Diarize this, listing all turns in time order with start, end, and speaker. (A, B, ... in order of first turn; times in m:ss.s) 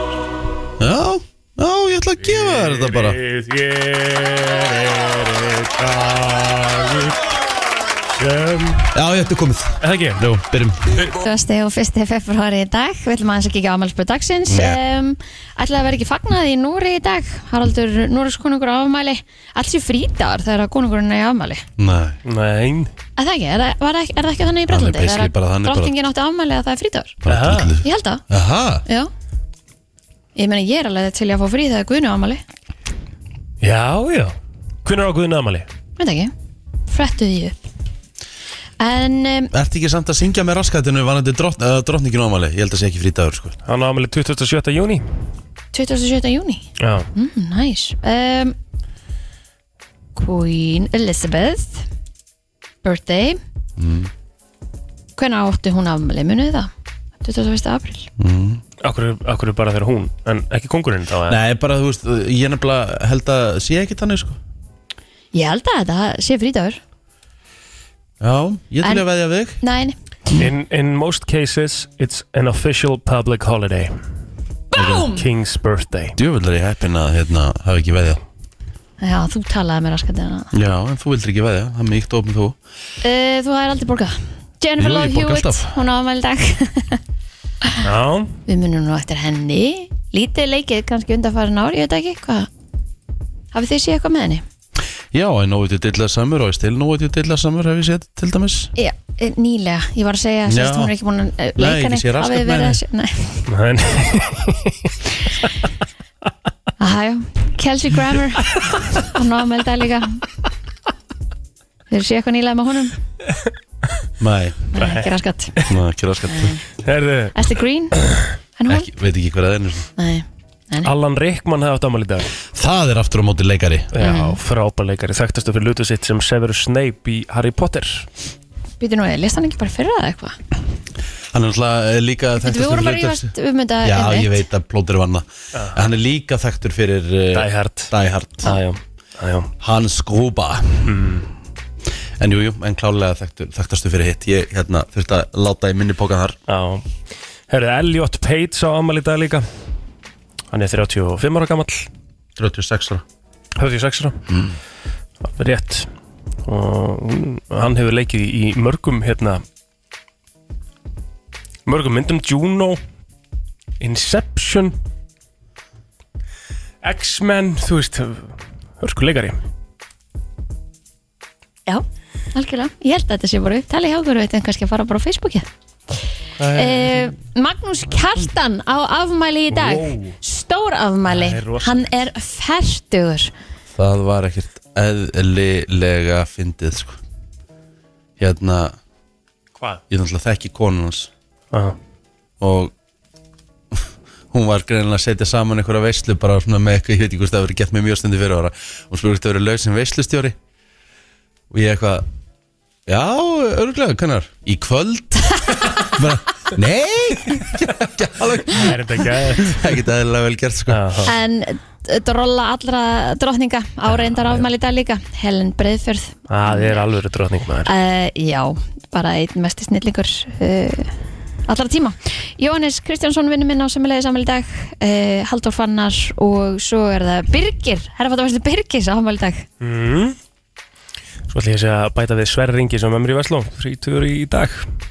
0:00.8-0:03.2 A
0:02.2-0:07.2 B
0:08.2-0:08.9 B
0:08.9-0:10.8 A
0:09.8-0:10.2 B
0:11.0-0:21.6 C
0:14.5-0:14.8 A
0:21.8-0:22.2 A
0:22.2-0:22.9 B
0:23.2-0:27.2 C
0:24.7-0:25.9 A
0:27.2-0:28.8 A
0:27.3-0:27.8 B
0:27.8-0:28.2 C
0:30.4-0:32.4 C
0:33.6-0:35.7 B
0:36.0-0:36.3 C
0:36.9-0:37.6 C
0:38.8-0:39.5 C
0:39.5-0:43.6 A
0:43.7-0:45.0 B
0:45.7-0:48.6 C
0:46.8-0:47.1 B
0:50.2-0:51.8 C
0:52.8-0:53.4 C
0:53.8-0:54.1 A
0:55.2-0:56.7 C
0:57.2-0:58.1 C
0:58.2-0:58.6 A
0:58.8-1:01.4 B
1:01.3-1:04.4 A
1:05.3-1:06.8 C
1:08.2-1:09.6 A
1:09.6-1:10.0 C
1:10.4-1:13.9 B
1:14.7-1:15.2 C
1:14.8-1:15.1 A
1:15.1-1:16.2 B
1:16.2-1:18.2 A
1:19.0-1:20.5 C
1:20.5-1:22.6 A
1:23.0-1:27.0 C
1:24.8-1:25.8 A
1:27.8-1:28.3 B
1:28.5-1:32.5 C
1:33.5-1:34.4 C
1:35.1-1:38.7 A
1:38.8-1:43.4 C
1:40.5-1:40.9 A
1:41.6-1:42.8 A
1:43.5-1:44.9 B
1:46.8-1:50.2 C
1:51.9-1:53.0 C
1:54.2-1:54.7 A
1:54.7-1:55.6 C
1:54.8-1:55.7 B
1:55.6-1:56.6 A
1:56.3-1:56.6 C
1:56.8-1:57.4 B
1:57.4-1:58.0 C
1:58.6-1:58.9 C
1:58.7-1:59.9 A
2:00.0-2:00.9 C
2:00.8-2:02.3 B
2:02.5-2:03.9 A
2:03.9-2:08.1 B
2:04.0-2:04.4 C
2:08.8-2:10.4 C
2:11.3-2:13.3 A
2:12.4-2:14.4 C
2:13.8-2:18.5 A
2:15.6-2:15.8 B
2:17.3-2:17.9 B
2:18.4-2:19.5 B
2:19.6-2:21.0 A
2:20.8-2:21.3 B
2:22.2-2:26.4 A
2:26.5-2:26.9 B
2:27.5-2:29.4 B
2:30.5-2:31.9 B
2:32.4-2:33.0 A
2:33.6-2:34.2 B
2:34.3-2:34.6 A
2:35.2-2:35.9 B
2:36.5-2:39.4 B
2:41.7-2:42.8 B
2:43.8-2:44.8 B
2:46.8-2:49.4 B
2:51.7-2:55.5 C
2:56.4-2:57.1 B
2:56.5-3:03.3 C
2:59.5-3:00.2 B
3:01.1-3:01.9 B
3:03.8-3:07.0 A
3:08.2-3:08.8 A
3:09.9-3:11.1 A
3:12.4-3:12.7 A
3:13.7-3:20.4 A
3:21.5-3:22.1 A
3:22.9-3:31.0 A
3:28.5-3:29.7 B
3:30.7-3:31.1 B
3:31.1-3:36.8 C
3:34.0-3:34.4 B
3:36.3-3:37.7 B
3:37.7-3:40.9 C
3:41.5-3:49.4 C
3:49.6-3:50.2 B
3:51.3-3:54.7 B